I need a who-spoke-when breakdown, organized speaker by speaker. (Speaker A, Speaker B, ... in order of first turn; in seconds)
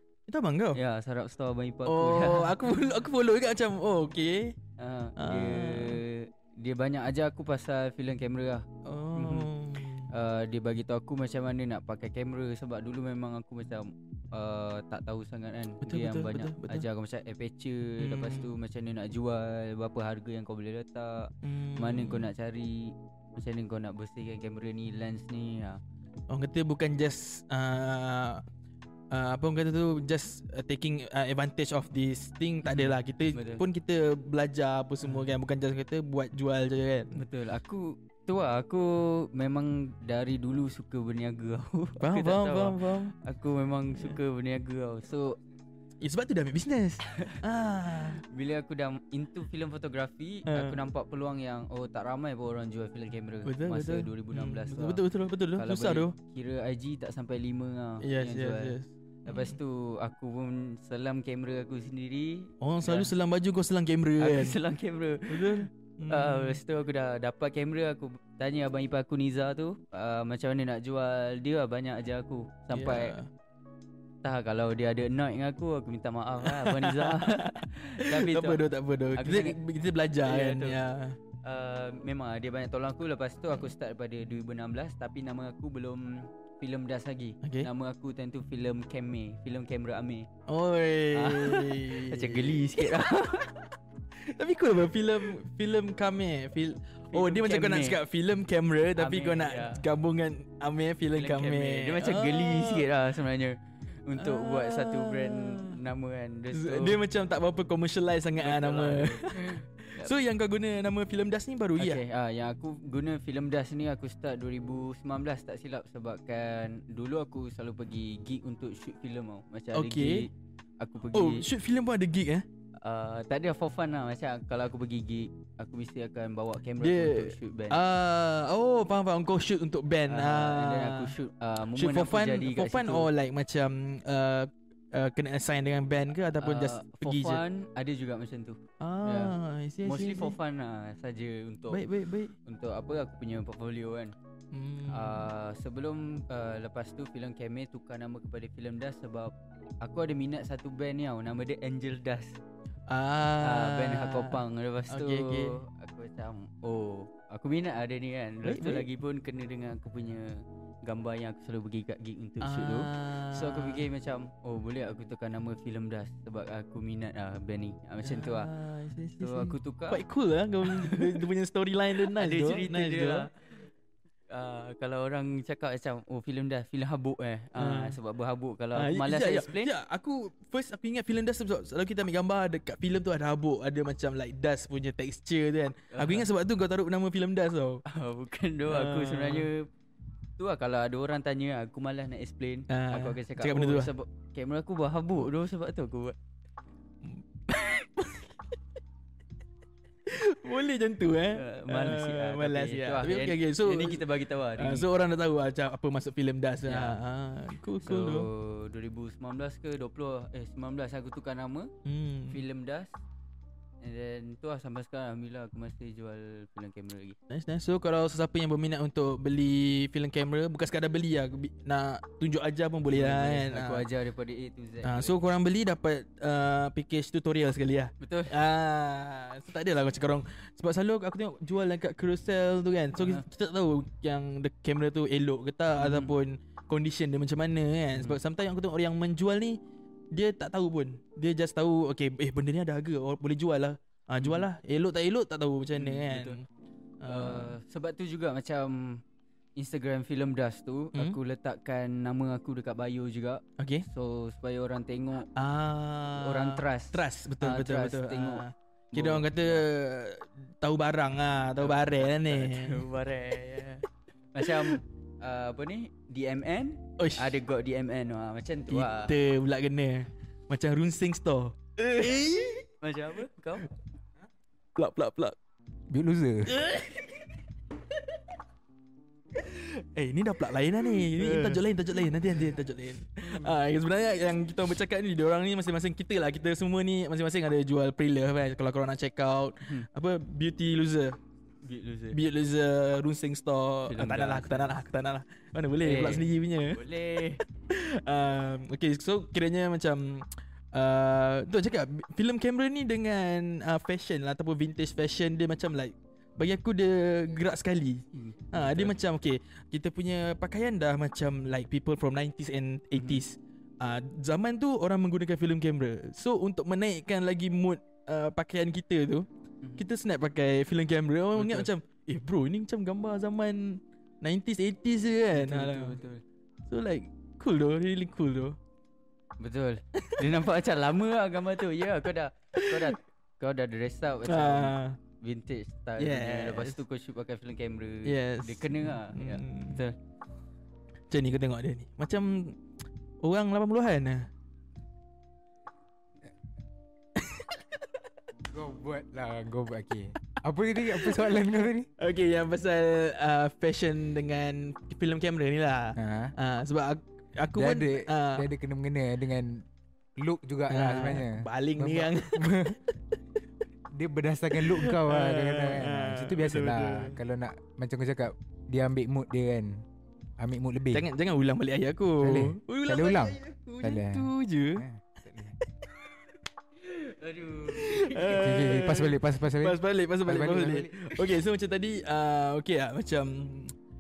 Speaker A: 0.3-0.8, 1.9-4.6, 5.2-6.0, 8.8-10.1, 15.8-16.9, 18.0-18.5, 21.4-22.3, 26.3-28.4, 29.1-37.2, 42.0-43.1, 46.0-48.2, 50.5-50.8, 53.5-56.1, 58.0-59.6, 62.6-64.6, 65.3-66.6, 72.7-73.3, 76.4-81.2, 87.4-87.7, 90.5-93.5, 94.1-102.9, 104.2-105.8, 106.5-112.0, 119.7-120.3, 121.1-122.5, 126.8-131.2, 131.7-137.4, 138.8-140.4, 141.7-142.3, 144.5-145.3, 152.9-155.6, 158.4-158.9, 162.4-163.8, 168.0-173.3, 177.6-178.0, 178.8-187.8, 188.7-189.5, 192.7-193.9, 197.0-198.3, 200.1-208.3, 211.8-212.4, 217.3-223.9, 224.8-239.6, 240.1-246.4, 247.0-247.6, 253.6-253.8, 255.3-262.9, 264.4-264.8, 267.0-267.4, 268.7-272.7, 274.8-275.4, 276.5-277.1, 279.4-291.2, 292.1-296.9, 297.4-319.3, 319.8-326.0, 326.7-328.6, 329.9-330.4, 332.6-332.9, 334.3-335.0, 336.0-336.8, 338.1-339.8, 341.1-342.6, 343.2-344.3, 347.2-347.6, 350.8-358.5, 360.7-363.0, 364.5-367.2, 370.9-374.9, 375.6-376.1, 377.7-383.8
Speaker B: 0.7-2.6, 4.8-9.5, 10.1-25.8, 32.6-33.6, 37.1-45.4, 47.1-47.4, 48.0-55.0, 55.5-63.1, 64.2-73.2, 74.2-78.6, 79.1-79.6, 80.2-80.8, 81.4-90.3, 91.1-93.6, 97.1-98.0, 99.0-99.8, 101.1-107.0, 108.4-110.1, 111.8-121.5, 122.8-127.8, 130.1-133.1, 136.4-141.8, 142.4-144.2, 144.9-152.4, 153.4-168.5, 169.2-170.0, 170.6-171.2, 172.0-173.6, 174.3-179.7, 185.9-186.3, 187.9-189.7, 190.4-196.2, 201.3-204.9, 206.7-207.0, 207.8-211.7, 212.3-212.9, 213.8-217.2, 222.9-225.2, 228.0-228.4, 233.0-233.2, 235.8-236.1, 237.9-238.2, 244.2-244.5, 245.8-246.4, 247.1-249.0, 249.6-255.3, 256.1-259.7, 261.6-269.2, 272.8-273.7, 291.6-292.2, 293.9-294.8, 295.8-297.4, 308.1-308.9, 312.9-313.2, 321.4-321.7, 325.3-326.2, 329.4-339.9, 376.8-378.4
Speaker C: 275.9-276.6, 281.3-281.6, 348.5-351.9, 356.0-356.4, 357.5-359.7, 360.2-362.8, 363.9-369.8, 370.4-371.1, 372.2-375.6, 378.2-381.2